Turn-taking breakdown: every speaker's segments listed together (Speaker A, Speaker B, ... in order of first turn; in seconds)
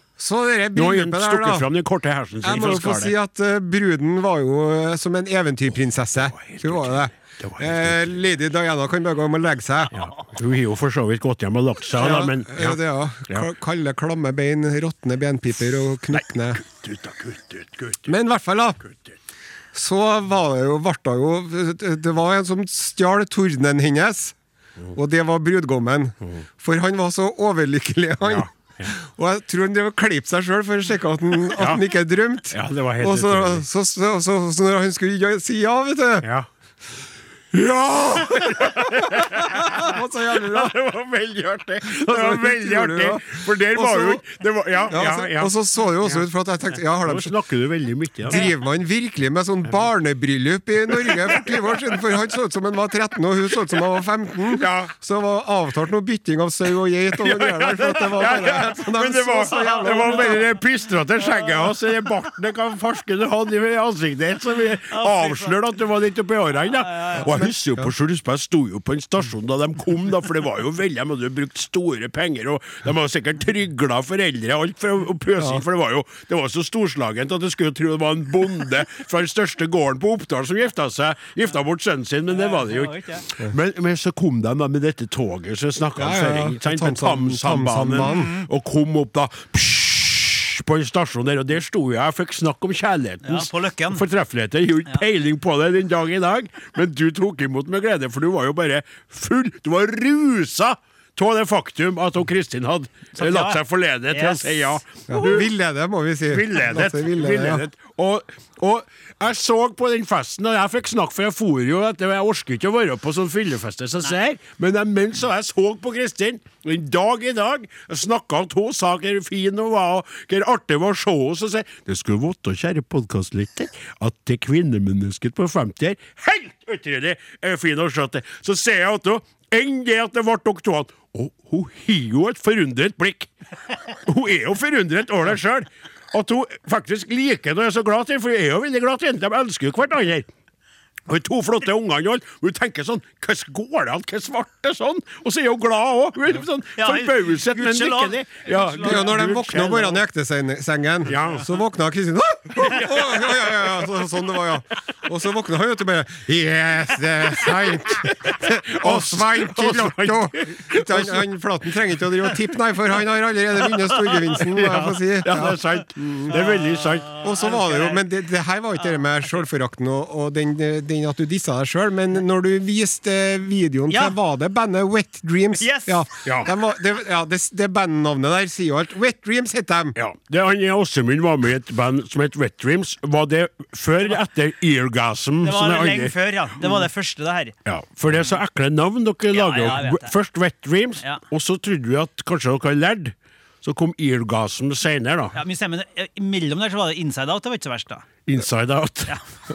Speaker A: 0.2-1.7, 2.4-9.9, 11.9-16.6, 18.1-18.8, 19.7-24.4, 24.9-36.3, 37.9-40.8, 41.9-44.2, 44.9-47.3, 48.2-60.4, 67.2-67.9, 86.0-88.3, 105.1-107.6, 148.8-166.4, 167.2-179.9
Speaker B: 0.8-3.1, 6.2-8.2, 9.9-13.5, 16.6-18.1, 28.2-28.9, 31.6-31.8, 32.5-33.6, 36.2-36.5, 37.5-45.5, 47.0-48.5, 51.1-51.5, 54.5-54.9, 57.2-105.5, 106.3-133.3, 133.9-140.3, 141.1-150.0, 151.1-151.5, 152.6-153.6, 158.0-161.3, 164.4-167.1, 176.2-176.5, 180.0-186.2, 187.7-195.4, 198.3-199.2
Speaker C: 59.5-60.4, 64.9-65.5, 66.8-67.4, 82.3-83.2, 88.0-88.4, 93.2-94.0, 103.2-104.8, 146.8-149.4, 166.3-168.0, 173.9-174.2, 175.6-176.0, 185.4-187.6, 189.3-190.1, 195.3-198.1